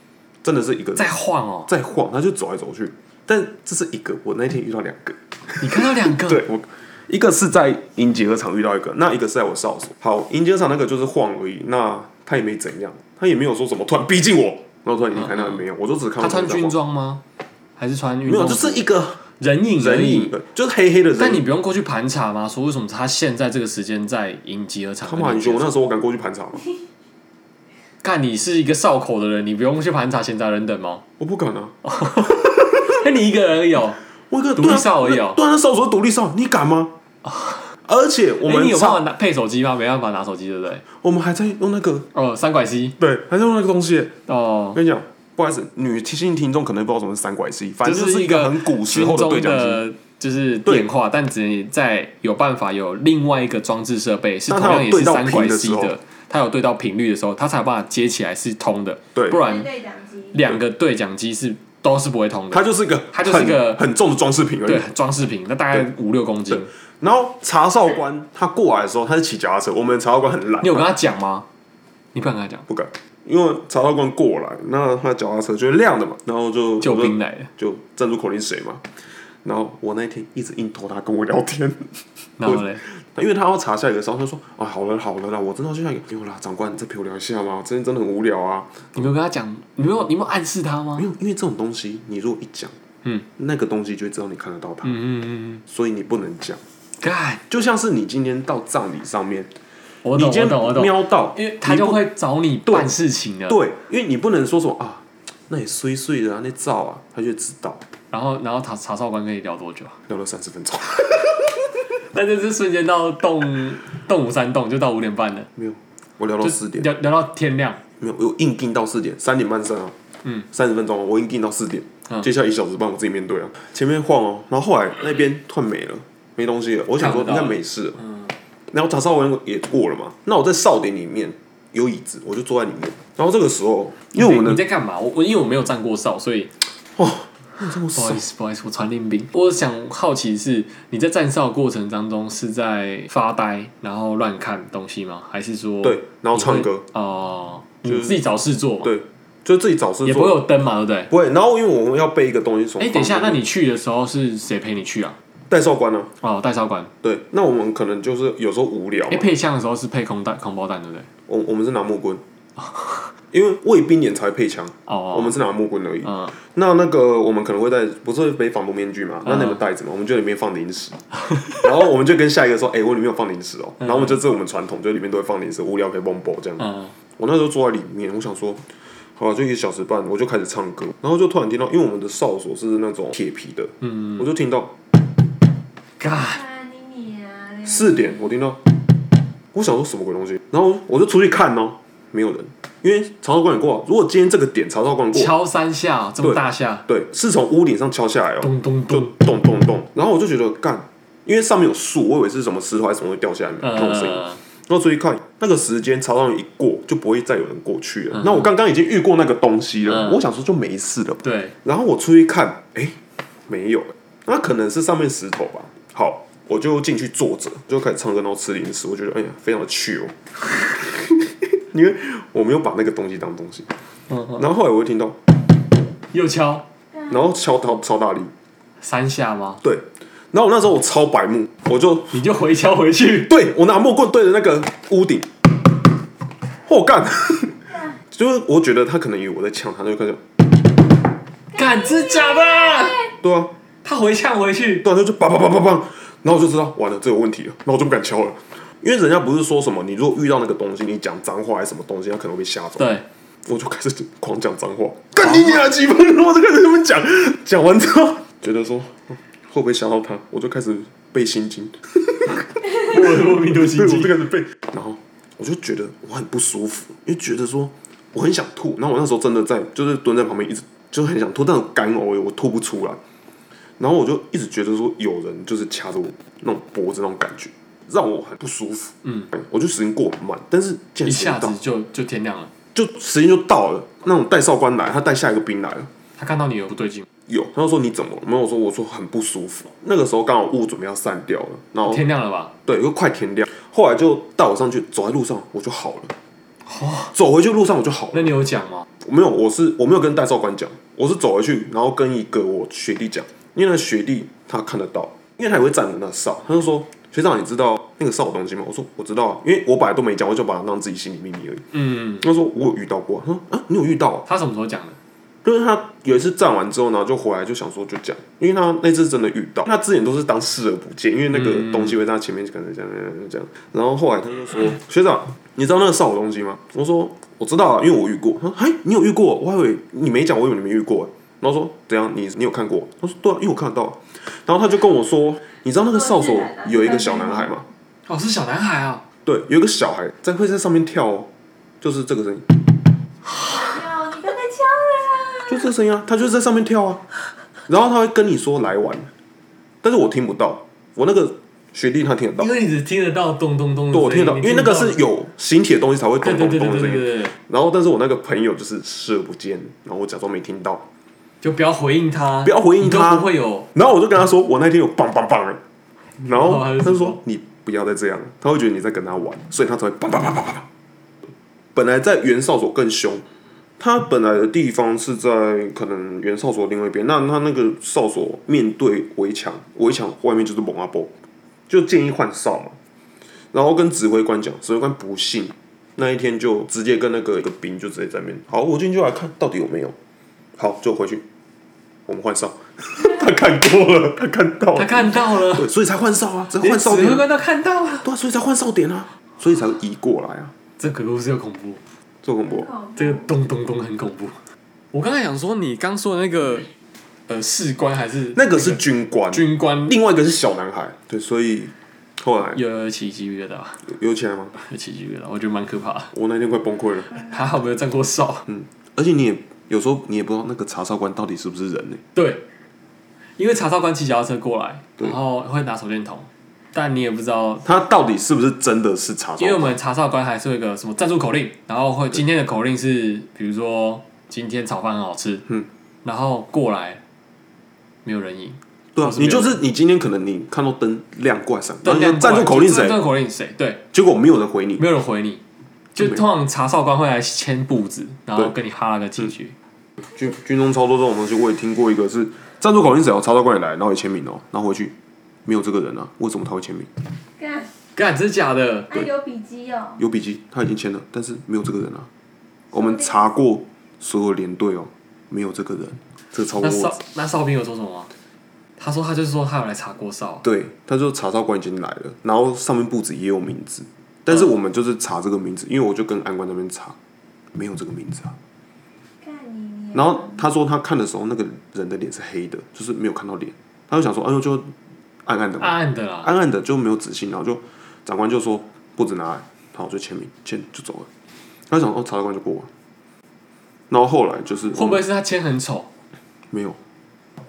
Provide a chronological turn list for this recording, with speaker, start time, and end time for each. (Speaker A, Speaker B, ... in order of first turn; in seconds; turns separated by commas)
Speaker A: 0.4-1.1, Speaker B: 1.0-1.7, Speaker A: 1.7-16.8, Speaker B: 5.6-6.4, Speaker B: 15.2-15.6, Speaker B: 16.2-17.2, Speaker B: 17.8-18.9, Speaker A: 18.3-19.2, Speaker B: 19.4-20.3, Speaker A: 19.8-21.4, Speaker B: 21.2-25.7, Speaker A: 25.0-26.7, Speaker B: 28.0-31.1, Speaker A: 31.2-31.8, Speaker B: 31.9-34.0, Speaker A: 34.3-36.9, Speaker B: 34.6-35.4, Speaker B: 37.2-37.7, Speaker A: 37.9-39.0, Speaker B: 38.4-40.8, Speaker A: 41.0-42.1, Speaker B: 42.1-43.0, Speaker A: 43.0-44.1, Speaker B: 44.3-44.8, Speaker A: 44.7-49.8, Speaker B: 47.8-59.7, Speaker A: 54.5-56.0, Speaker A: 59.1-59.4, Speaker C: 59.3-60.4, Speaker B: 60.3-63.8, Speaker A: 62.5-64.9, Speaker B: 64.7-66.7, Speaker A: 66.5-70.9, Speaker B: 70.6-71.5, Speaker B: 72.1-72.7, Speaker A: 72.7-78.9, Speaker B: 76.8-77.5, Speaker A: 79.4-89.0, Speaker B: 82.4-82.8, Speaker B: 89.0-91.1, Speaker A: 91.0-92.8, Speaker A: 93.4-95.0, Speaker B: 94.8-95.6, Speaker A: 95.7-96.6, Speaker B: 97.0-97.4, Speaker A: 97.5-99.5, Speaker B: 100.0-103.6, Speaker A: 100.1-102.0, Speaker A: 103.5-107.8, Speaker B: 108.1-110.0, Speaker A: 110.1-111.5, Speaker B: 112.1-115.5, Speaker A: 115.6-116.9, Speaker B: 116.4-117.8, Speaker A: 118.0-120.0, Speaker A: 120.5-128.0, Speaker B: 127.0-127.6, Speaker A: 128.7-134.6, Speaker B: 134.1-136.5, Speaker A: 137.0-138.2, Speaker B: 137.9-148.9, Speaker A: 145.8-146.8, Speaker A: 147.8-148.2, Speaker A: 148.8-150.4, Speaker B: 150.1-151.1, Speaker A: 151.1-153.4, Speaker B: 152.8-155.2, Speaker A: 155.5-156.1, Speaker B: 156.2-156.9, Speaker A: 157.0-159.3, Speaker B: 159.1-161.1, Speaker A: 161.3-162.2, Speaker B: 162.6-163.1, Speaker A: 163.3-178.7, Speaker B: 164.9-165.3, Speaker B: 166.0-166.3, Speaker B: 169.2-169.6, Speaker B: 173.8-174.1, Speaker B: 176.6-176.9, Speaker A: 179.2-184.7, Speaker B: 186.0-186.4, Speaker C: 186.2-188.3, Speaker A: 187.7-188.6, Speaker A: 189.5-195.3, Speaker B: 195.1-196.9, Speaker A: 196.2-220.2, Speaker B: 198.4-199.1, Speaker B: 203.6-204.4, Speaker B: 208.1-208.5, Speaker B: 209.9-210.2, Speaker B: 211.2-211.5, Speaker A: 220.7-223.8, Speaker B: 224.1-224.4, Speaker A: 224.4-225.2, Speaker B: 226.1-226.7, Speaker A: 227.1-228.3, Speaker B: 228.8-229.6, Speaker A: 229.6-232.2, Speaker B: 232.1-233.3, Speaker A: 233.2-235.3, Speaker A: 236.7-240.2, Speaker B: 241.5-243.1, Speaker C: 242.2-242.7, Speaker A: 243.2-243.5, Speaker B: 243.8-244.9, Speaker A: 244.8-252.9, Speaker B: 252.8-253.1, Speaker A: 253.5-273.0, Speaker B: 262.7-264.2, Speaker A: 273.8-281.6, Speaker B: 281.0-282.5, Speaker A: 282.8-285.9, Speaker B: 286.2-287.1, Speaker A: 287.3-292.1, Speaker B: 291.9-292.5, Speaker A: 292.7-296.1, Speaker B: 296.7-297.1, Speaker A: 297.1-298.3, Speaker B: 298.1-298.9, Speaker A: 299.0-311.7, Speaker B: 311.7-312.2, Speaker A: 312.2-314.2, Speaker B: 314.3-315.0, Speaker A: 315.4-337.7, Speaker B: 321.3-321.9, Speaker C: 335.8-337.5, Speaker B: 338.1-339.0, Speaker A: 339.3-341.3, Speaker A: 341.8-342.6, Speaker C: 343.4-345.7, Speaker A: 345.5-347.0, Speaker A: 347.7-349.1, Speaker A: 349.8-352.5, Speaker B: 352.4-355.0, Speaker A: 353.9-360.9, Speaker B: 356.2-357.4, Speaker B: 361.4-363.7, Speaker A: 362.4-365.6, Speaker A: 366.2-370.7, Speaker B: 366.3-367.2, Speaker A: 371.8-373.2, Speaker A: 373.8-381.1, Speaker A: 381.7-382.8, Speaker A: 383.5-389.9, Speaker A: 390.6-391.2, Speaker A: 392.1-397.3, Speaker B: 394.8-395.7, Speaker B: 396.6-398.1, Speaker A: 398.0-400.5, Speaker B: 400.8-401.8, Speaker A: 402.2-402.7, Speaker C: 402.5-403.2, Speaker B: 403.0-404.4, Speaker B: 404.9-406.7, Speaker B: 407.3-409.9, Speaker A: 408.4-412.6, Speaker B: 412.5-413.9, Speaker A: 413.8-414.6, Speaker B: 414.6-416.1, Speaker A: 416.1-417.2, Speaker B: 417.2-418.5, Speaker A: 418.5-422.0, Speaker B: 422.1-422.4, Speaker B: 423.4-427.7, Speaker A: 427.6-429.8, Speaker B: 429.4-435.5, Speaker B: 436.1-437.0, Speaker B: 438.1-439.6, Speaker A: 439.0-443.0, Speaker B: 441.8-443.8, Speaker A: 443.9-444.9, Speaker B: 444.8-445.4, Speaker B: 445.9-449.5, Speaker A: 450.1-454.9, Speaker A: 455.5-456.9, Speaker C: 457.4-457.7, Speaker B: 457.9-459.1, Speaker C: 458.9-460.0, Speaker A: 460.0-462.1, Speaker A: 462.7-467.0, Speaker C: 462.7-463.1, Speaker B: 466.6-468.1, Speaker B: 468.8-470.4, Speaker A: 470.4-477.0, Speaker A: 477.6-478.4, Speaker C: 479.2-480.4, Speaker A: 479.9-484.7, Speaker A: 485.2-491.1, Speaker B: 485.6-486.3, Speaker A: 491.7-492.7, Speaker A: 493.9-495.1, Speaker B: 494.7-495.9, Speaker A: 496.5-496.8